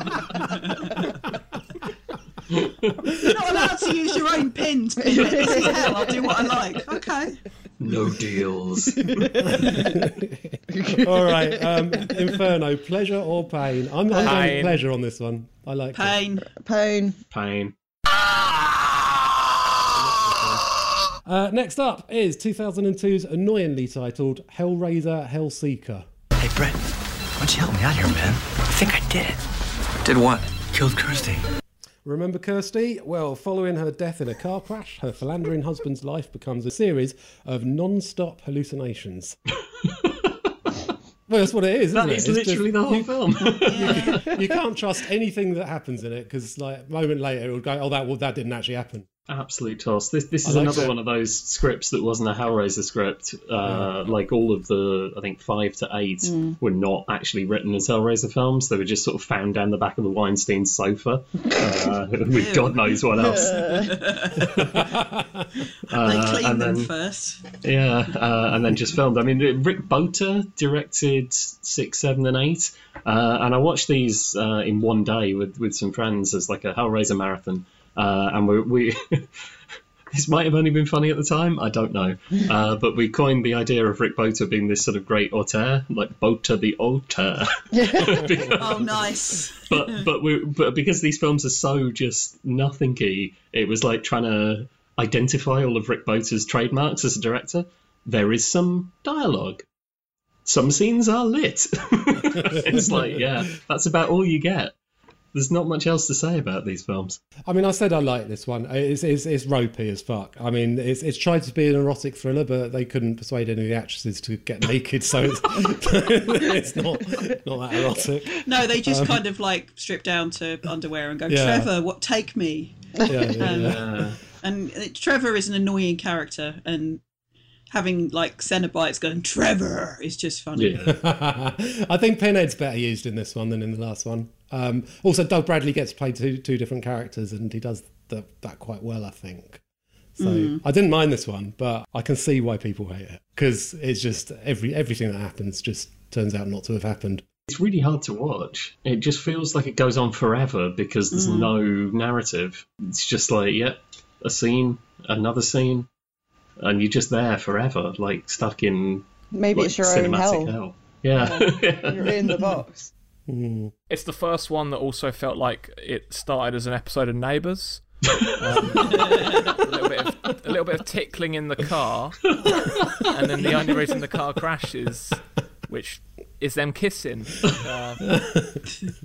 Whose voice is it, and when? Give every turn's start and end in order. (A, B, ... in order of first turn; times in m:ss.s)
0:02.5-0:03.0 A
0:03.1-0:03.6 B
0:03.2-0:07.4 C
0:05.1-0:06.4 D
0:07.8-0:09.3 A
0:09.0-0:09.9 D
0:09.5-0:16.2 B
0:10.7-0:12.3 D
0:14.1-0:14.6 D
0:14.2-0:14.8 E
0:15.9-0:16.5 C
0:16.6-0:17.2 D
0:17.3-0:17.7 A
0:19.9-0:20.7 B
0:21.2-0:26.0 B
0:26.4-0:26.8 F
0:27.4-0:29.4 F
0:30.0-0:31.4 F
0:32.0-0:39.4 B
0:41.3-0:43.2 B
0:41.9-0:44.1 A
0:43.6-0:44.2 C
0:43.8-0:49.1 B
0:49.3-1:03.7 A
0:50.4-0:50.9 B
0:53.6-0:53.9 B
0:56.2-0:56.6 D
1:02.3-1:04.5 C
1:03.2-1:04.0 D
1:04.4-1:04.8 A
1:04.7-1:05.5 B
1:05.9-1:06.9 A
1:06.0-1:07.4 C
1:07.6-1:19.3 A
1:20.1-1:28.9 A
1:27.7-1:28.3 D
1:28.6-1:30.0 C
1:29.6-1:39.6 A
1:40.4-1:44.7 A
1:42.4-1:43.3 B
1:45.3-1:47.2 A
1:47.4-1:59.2 B
1:58.4-2:02.7 C
2:01.3-2:01.7 B
2:03.0-2:03.3 D
2:03.1-2:03.9 B
2:03.4-2:03.8 C
2:03.5-2:04.2 A
2:04.4-2:07.0 C
2:07.7-2:10.8 C
2:10.6-2:10.9 A
2:10.8-2:19.6 B
2:20.2-2:27.2 B
2:20.2-2:20.6 C
2:27.5-2:35.9 A
2:31.1-2:31.5 C
2:36.6-2:42.5 A
2:39.3-2:40.5 D
2:41.1-2:42.9 D
2:43.3-2:43.7 B
2:43.9-2:47.9 E
2:48.4-2:52.3 E
2:53.0-2:58.0 E
2:58.0-2:58.6 B